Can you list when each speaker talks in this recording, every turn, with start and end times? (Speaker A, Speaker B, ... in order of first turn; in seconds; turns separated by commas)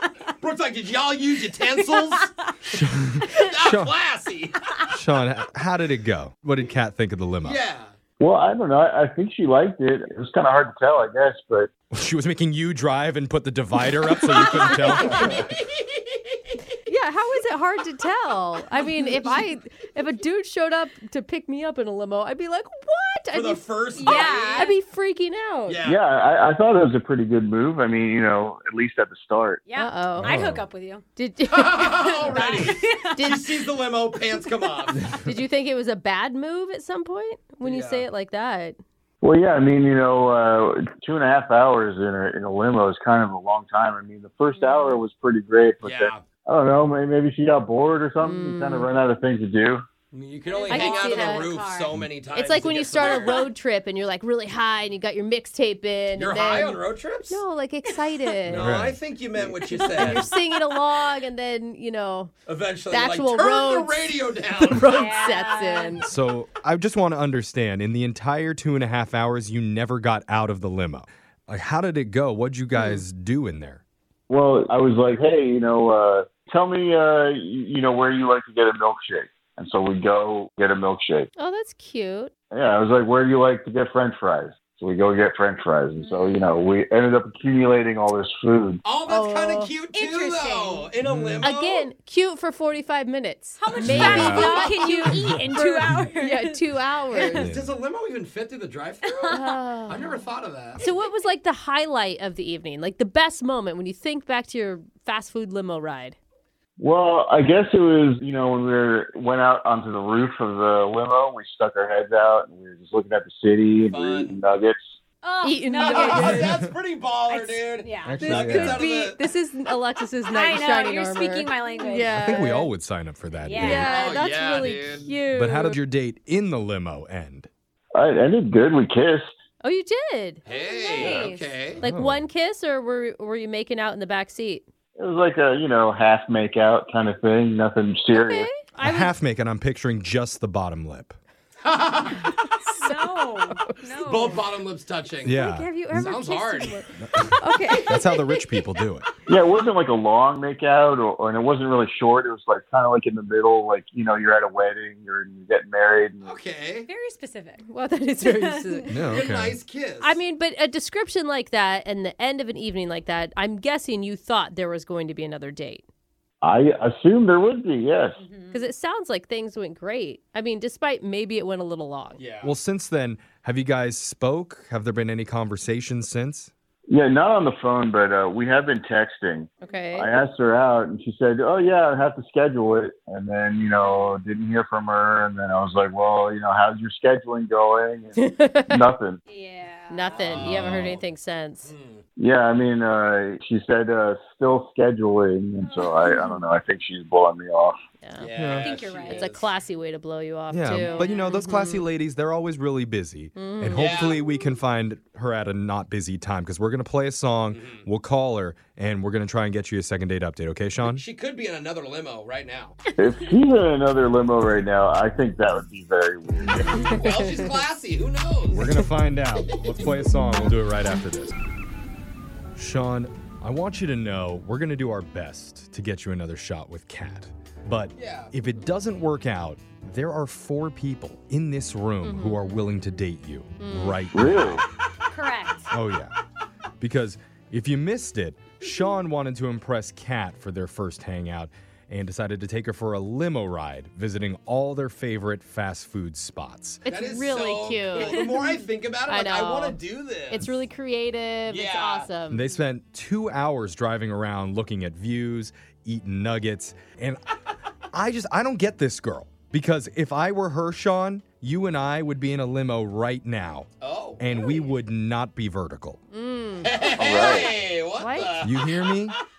Speaker A: 0.4-2.3, Speaker B: 1.7-2.5, Speaker C: 2.7-3.9, Speaker A: 3.3-4.7, Speaker C: 4.9-7.6, Speaker A: 7.4-7.9, Speaker D: 8.2-11.7, Speaker C: 11.9-15.3, Speaker A: 15.4-16.4, Speaker E: 16.9-25.8, Speaker A: 19.0-19.4, Speaker A: 23.3-24.7, Speaker B: 24.0-24.7, Speaker A: 25.6-26.0, Speaker D: 25.8-29.6, Speaker B: 29.6-31.1, Speaker E: 29.8-30.5, Speaker C: 30.2-30.6, Speaker E: 31.1-32.5, Speaker A: 31.5-35.1, Speaker B: 31.9-33.2, Speaker E: 33.1-33.5, Speaker E: 35.2-38.8, Speaker A: 37.6-38.1, Speaker D: 39.2-49.9, Speaker E: 44.6-44.9, Speaker A: 45.8-46.2, Speaker E: 48.2-48.9, Speaker A: 50.1-53.5, Speaker B: 50.5-51.9, Speaker E: 50.7-51.5, Speaker E: 52.3-58.8, Speaker B: 53.0-53.5, Speaker A: 56.1-57.4, Speaker A: 58.4-60.3, Speaker C: 58.5-59.0, Speaker E: 59.8-62.3, Speaker A: 62.5-64.9, Speaker E: 62.9-66.1, Speaker B: 64.9-66.0, Speaker C: 66.0-73.8, Speaker E: 72.8-73.0, Speaker D: 74.3-81.3, Speaker E: 81.4-82.3, Speaker D: 82.5-88.8, Speaker B: 86.0-86.5, Speaker A: 88.8-91.9, Speaker E: 89.1-89.7, Speaker B: 89.9-90.9, Speaker C: 91.0-91.5, Speaker E: 91.4-97.5, Speaker B: 93.6-96.6, Speaker C: 93.8-94.8, Speaker A: 97.2-100.8, Speaker C: 97.3-97.8, Speaker B: 99.0-99.5, Speaker E: 99.3-100.0, Speaker E: 100.8-106.2, Speaker D: 106.8-115.0, Speaker A: 113.9-114.4, Speaker B: 115.2-116.5, Speaker E: 115.4-116.5, Speaker A: 115.8-119.2, Speaker C: 116.2-116.7, Speaker B: 117.3-118.4, Speaker C: 118.0-118.8, Speaker E: 118.2-122.7, Speaker B: 120.3-122.3, Speaker C: 122.1-123.9, Speaker B: 123.4-124.2, Speaker E: 123.6-125.8, Speaker A: 123.6-125.1, Speaker C: 125.3-127.5, Speaker D: 127.9-129.3, Speaker E: 129.6-134.6, Speaker A: 130.5-131.8, Speaker B: 130.5-131.4, Speaker C: 131.8-132.2, Speaker D: 135.0-138.5, Speaker E: 138.1-139.1, Speaker C: 138.8-141.2, Speaker A: 141.6-142.3, Speaker E: 142.7-143.0, Speaker B: 142.8-144.4, Speaker E: 143.5-143.8, Speaker A: 144.0-146.8, Speaker C: 145.2-146.1, Speaker B: 145.4-146.8, Speaker E: 145.8-146.6, Speaker C: 147.0-149.1, Speaker E: 147.4-147.9, Speaker B: 147.6-148.1, Speaker D: 149.3-156.3, Speaker A: 156.2-156.9, Speaker B: 156.9-157.6, Speaker E: 157.6-159.0, Speaker B: 158.2-158.9, Speaker C: 158.9-159.6, Speaker A: 159.1-160.2, Speaker E: 160.0-165.8, Speaker D: 166.4-168.2, Speaker B: 168.2-168.6, Speaker E: 168.5-172.2, Speaker A: 172.2-172.5, Speaker C: 172.4-176.5, Speaker D: 176.9-189.2, Speaker E: 179.6-180.1, Speaker B: 183.8-184.1, Speaker E: 188.2-188.8, Speaker B: 189.3-190.3, Speaker E: 189.9-191.7, Speaker A: 190.1-191.0, Speaker C: 190.4-190.9, Speaker A: 191.6-192.0, Speaker D: 192.2-197.8, Speaker B: 195.7-196.2, Speaker E: 198.0-198.3, Speaker A: 198.2-199.5, Speaker C: 198.4-198.7, Speaker B: 198.5-199.2, Speaker E: 199.1-201.8, Speaker C: 200.5-211.0, Speaker B: 200.7-201.3, Speaker E: 203.3-203.9, Speaker A: 203.7-204.2, Speaker A: 207.5-207.8, Speaker A: 210.9-212.8, Speaker D: 213.0-217.0, Speaker A: 216.9-218.8, Speaker C: 218.5-221.3, Speaker C: 222.6-234.6, Speaker A: 228.0-228.3, Speaker E: 232.0-232.6, Speaker E: 233.6-234.0, Speaker D: 234.1-234.6, Speaker B: 235.1-235.7, Speaker C: 235.7-236.1, Speaker C: 236.8-246.8, Speaker E: 246.8-248.3, Speaker A: 246.9-250.5, Speaker B: 248.1-248.6, Speaker E: 249.1-249.8, Speaker E: 250.3-252.5, Speaker A: 251.5-252.1, Speaker C: 252.3-257.2, Speaker C: 257.9-263.7, Speaker A: 263.8-264.5, Speaker C: 264.2-266.0, Speaker E: 266.1-266.7, Speaker A: 266.6-269.1, Speaker D: 267.0-267.6, Speaker E: 268.0-268.4, Speaker C: 268.4-269.1